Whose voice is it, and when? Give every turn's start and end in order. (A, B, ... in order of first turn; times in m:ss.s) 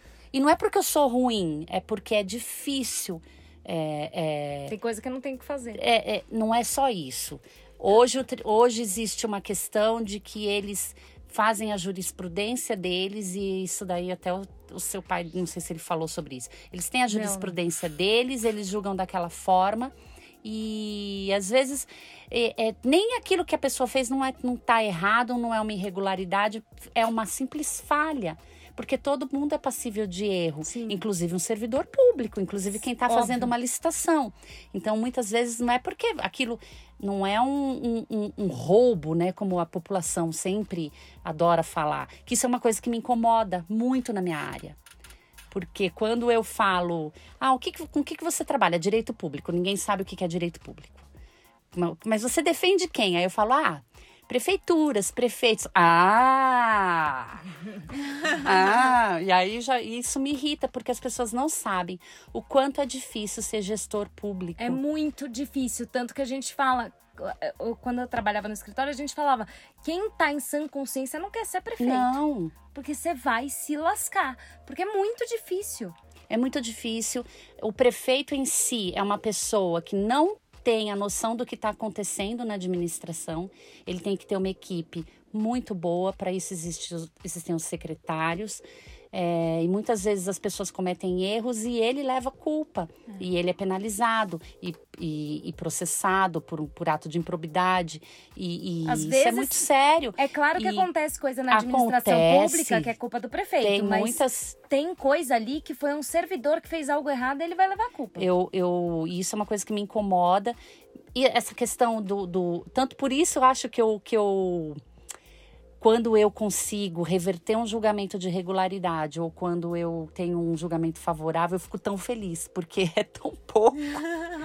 0:00.3-0:04.8 A
0:04.7-0:05.8 B
0:05.7-0:44.8 A
0:17.1-0:17.6 B
0:30.7-0:31.0 B
0:33.1-0:33.5 B
0:45.5-0:51.1 A
0:51.7-0:57.4 A
0:58.2-1:04.8 A
1:04.6-1:12.2 B
1:11.8-1:12.6 A
1:12.7-1:16.0 B
1:16.3-1:40.9 A
1:38.8-1:48.3 B
1:41.5-1:42.9 A
1:43.6-1:44.6 A
1:48.2-1:50.6 A
1:51.1-1:54.8 A
1:55.8-2:04.0 A